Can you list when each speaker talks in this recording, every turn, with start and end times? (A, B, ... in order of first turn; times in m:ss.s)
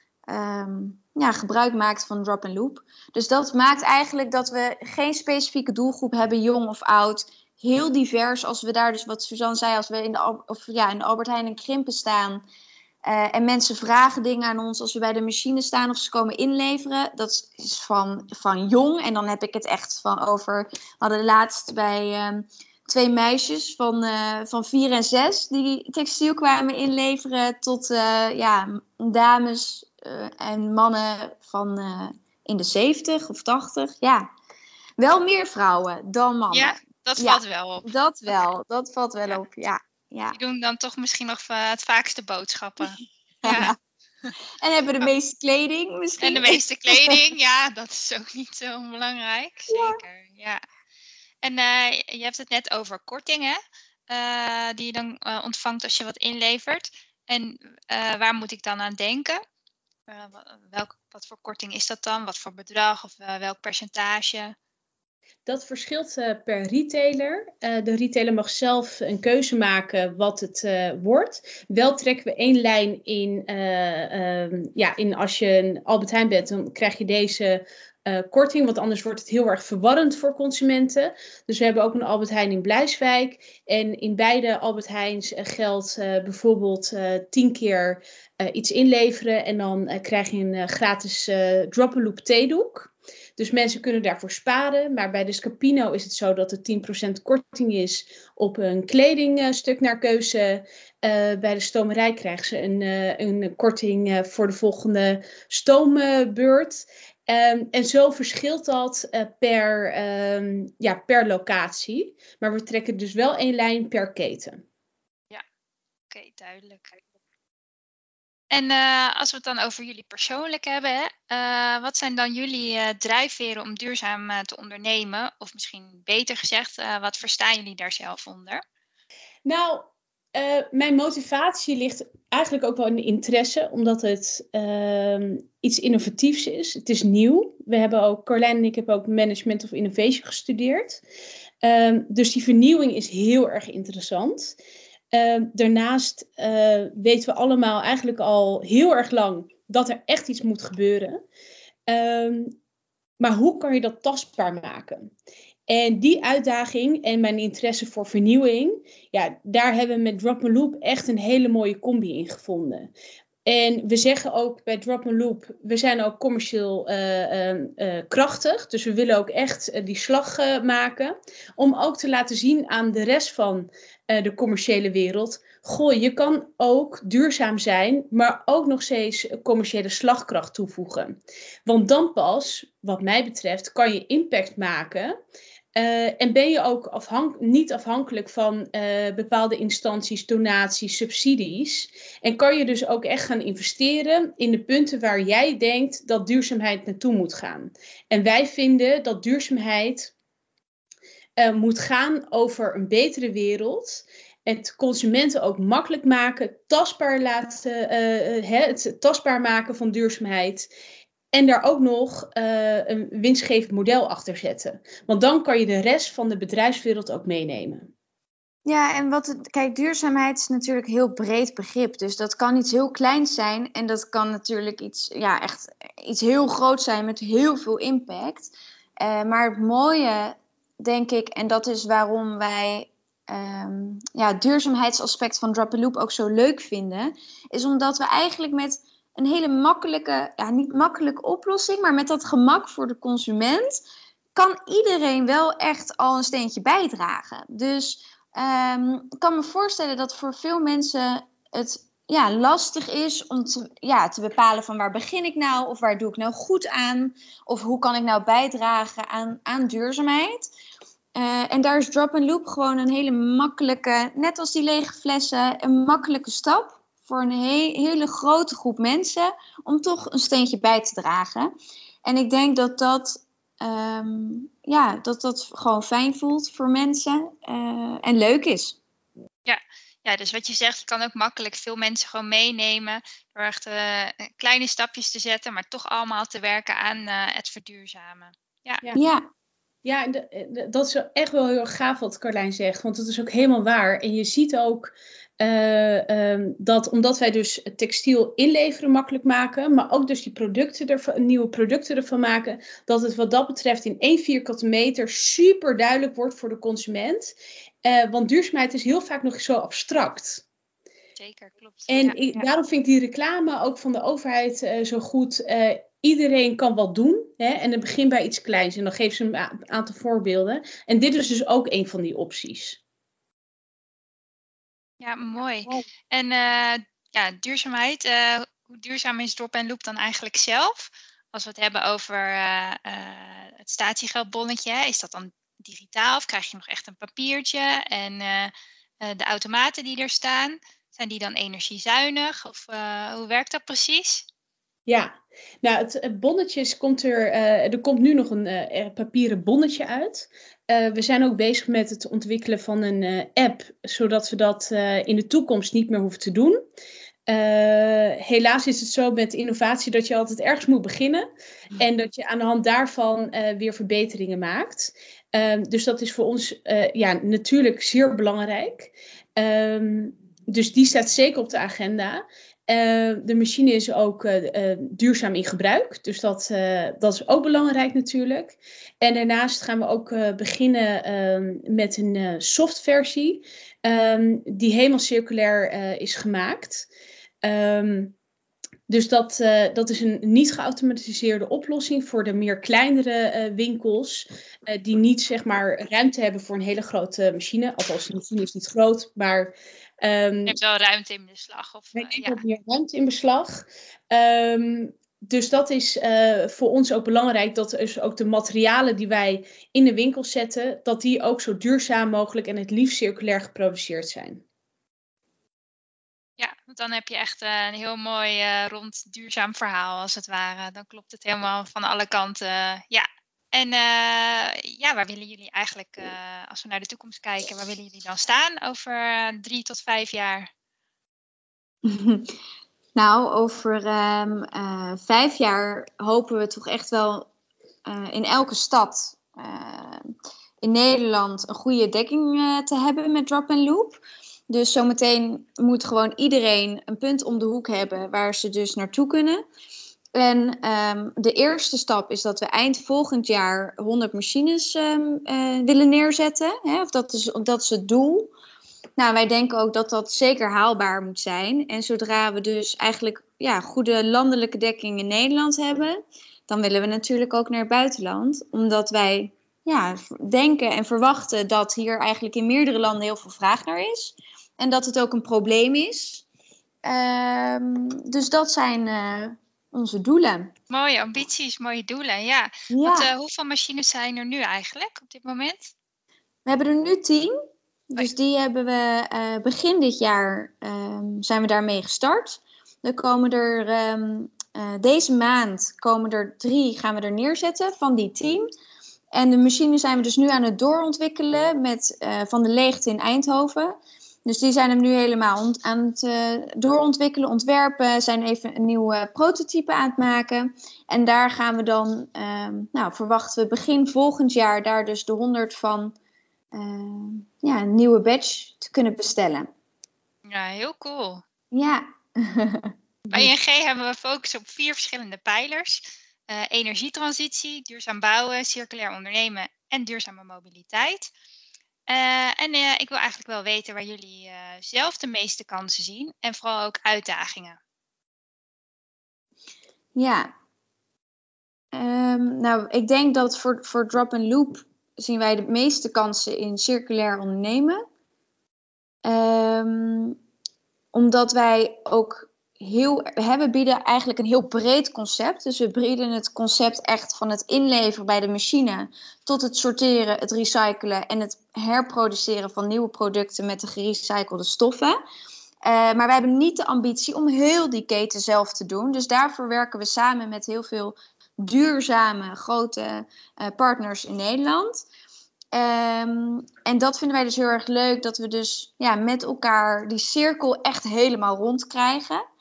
0:00.3-0:12.4 A
0:13.0-0:34.3 A
0:35.0-0:40.4 A
0:36.5-0:37.9 B
0:40.3-0:44.3 B
0:43.4-0:43.8 A
0:44.6-0:47.1 A
0:46.2-0:50.6 B
0:49.7-0:50.0 A
0:51.4-0:53.6 B
0:54.1-0:59.4 B
1:00.1-1:04.5 B
1:05.4-1:54.6 C
1:56.1-1:57.0 B
1:58.5-2:08.6 B
2:09.4-2:21.0 C
2:21.6-2:24.6 C
2:25.1-2:31.2 C
2:31.9-2:32.5 C
2:33.2-2:35.1 C
2:35.7-2:42.9 C
2:43.4-3:05.1 C
3:05.7-3:20.1 C
3:21.4-3:30.7 C
3:31.3-3:37.9 C
3:38.6-4:03.8 A
4:04.4-4:20.5 A
4:21.2-4:31.5 A
4:32.0-4:38.8 A
4:39.4-4:48.8 B
4:49.0-4:49.3 A
4:49.8-5:10.4 C
5:11.2-5:12.5 B
5:11.9-5:22.8 C
5:25.0-5:44.2 B
5:44.9-5:56.6 C
5:57.3-6:01.2 C
6:01.8-6:26.9 C
6:27.4-6:28.1 C
6:28.9-6:40.6 C
6:40.4-6:42.4 B
6:41.9-6:54.4 C
6:56.4-7:10.5 B
7:11.8-7:12.3 A
7:13.0-7:17.3 A
7:17.8-7:20.0 A
7:20.6-7:29.4 A
7:30.1-7:38.3 A
7:39.0-7:56.2 A
7:56.8-8:00.5 A
8:00.7-8:05.7 B
8:02.7-8:03.1 A
8:06.4-8:07.4 A
8:07.9-8:18.5 A
8:19.1-8:35.9 A
8:36.5-8:39.5 A
8:40.3-8:41.2 B
8:41.5-8:43.3 A
8:43.1-8:51.1 B
8:51.9-8:57.6 B
8:59.9-9:00.3 A
9:01.7-9:07.8 A
9:09.0-9:10.2 A
9:10.9-9:25.0 A
9:25.6-9:34.8 A
9:35.5-9:42.2 A